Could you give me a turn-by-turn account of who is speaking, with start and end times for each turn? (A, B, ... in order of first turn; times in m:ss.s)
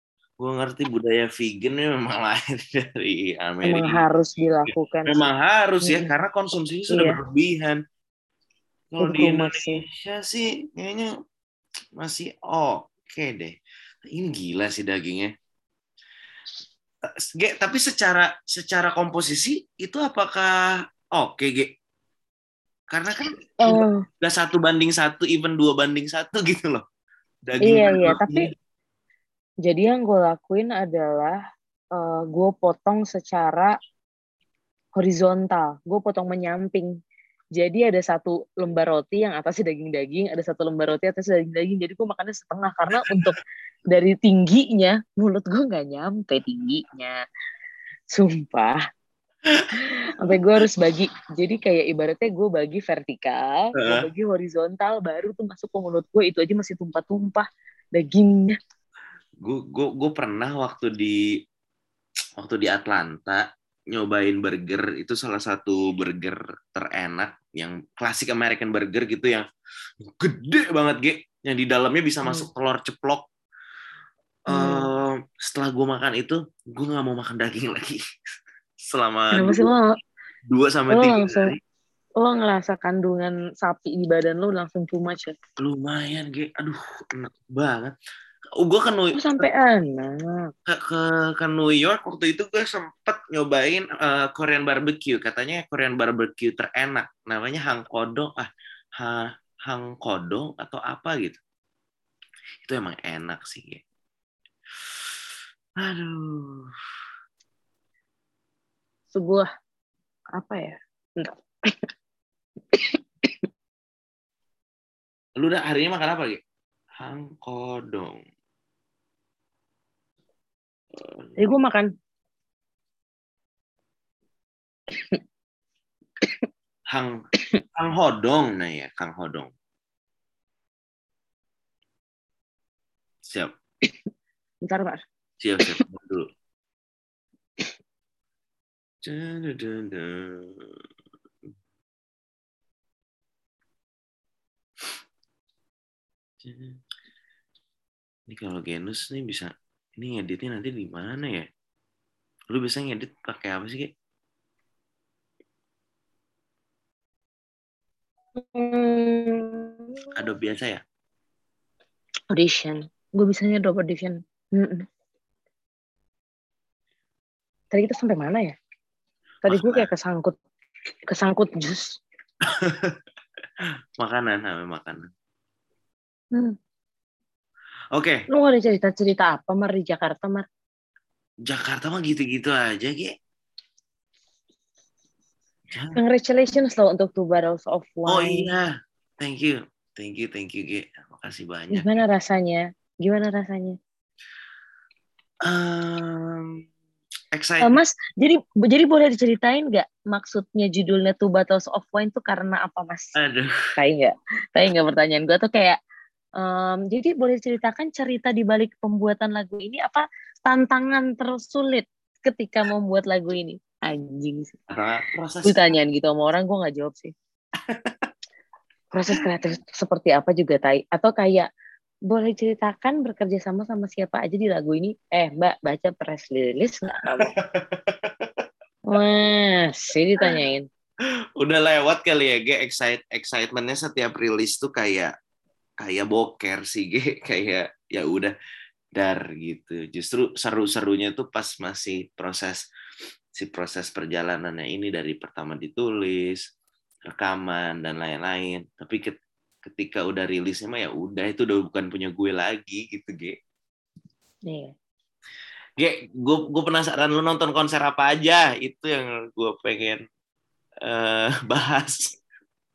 0:00.4-0:04.0 A
0:03.6-0:05.2 B
0:05.1-0:07.8 A
0:05.8-0:06.1 B
0:06.9-0:07.2 B
0:08.9-0:11.1 A
0:09.0-0:09.8 B
0:12.0-0:15.3 A
0:17.0-0:20.5 A
0:21.2-0:21.7 A
0:22.9-0:26.8 A
0:23.6-0:24.0 B
0:27.5-0:28.5 A
0:27.6-0:28.5 B
0:29.7-0:31.4 B
0:32.0-0:33.7 B
0:35.0-0:36.9 B
0:37.6-0:43.4 B
0:43.9-0:47.2 B
0:48.1-0:48.8 B
0:49.8-0:57.4 B
0:53.8-0:54.1 A
0:58.0-0:58.6 B
0:59.4-1:01.2 A
1:02.4-1:09.4 A
1:10.0-1:13.3 A
1:14.5-1:18.0 A
1:14.5-1:14.9 B
1:18.9-1:19.7 A
1:19.3-1:19.9 B
1:20.5-1:21.6 A
1:20.9-1:21.5 B
1:22.2-1:25.4 B
1:25.6-1:28.0 A
1:28.6-1:29.5 A
1:29.2-1:30.5 B
1:30.7-1:41.4 A
1:42.6-1:43.8 A
1:44.9-1:45.1 A
1:45.8-1:46.7 A
1:49.1-1:49.5 B
1:50.4-1:51.9 B
1:52.7-1:53.4 B
1:55.4-1:56.4 A
1:57.0-1:58.2 A
2:01.0-2:01.4 A
2:01.4-2:01.9 B
2:04.9-2:05.2 B
2:06.9-2:07.2 A
2:07.8-2:09.5 A
2:13.3-2:13.5 A
2:14.6-2:15.0 B
2:15.4-2:16.3 A
2:19.0-2:20.8 A
2:26.4-2:26.8 A
2:28.3-2:31.5 A
2:32.5-2:33.9 A
2:38.4-2:40.1 B
2:40.2-2:40.8 A
2:42.3-2:44.8 B
2:47.7-2:48.5 B
2:49.4-2:50.4 B
2:49.5-2:49.9 A
2:51.1-2:52.0 B
2:52.5-2:53.0 A
2:54.0-2:55.1 A
2:58.0-2:58.2 A
2:58.3-3:00.5 B
3:01.5-3:03.1 A
3:05.7-3:06.0 A
3:05.9-3:08.5 B
3:08.1-3:11.9 A
3:11.7-3:13.8 B
3:15.4-3:16.6 A
3:17.3-3:17.8 A
3:17.6-3:23.2 B
3:23.2-3:23.5 A
3:23.8-3:25.8 B
3:26.4-3:34.6 B
3:34.7-3:35.6 A
3:35.4-3:37.1 B
3:37.7-3:38.1 A
3:38.9-3:41.5 B
3:42.1-3:47.3 B
3:47.2-3:48.4 A
3:48.9-3:50.7 B
3:51.4-3:55.1 A
3:55.8-3:58.3 A
3:59.0-4:02.6 A
4:03.3-4:06.4 A
4:07.1-4:13.4 A
4:15.8-4:20.0 A
4:20.8-4:22.2 A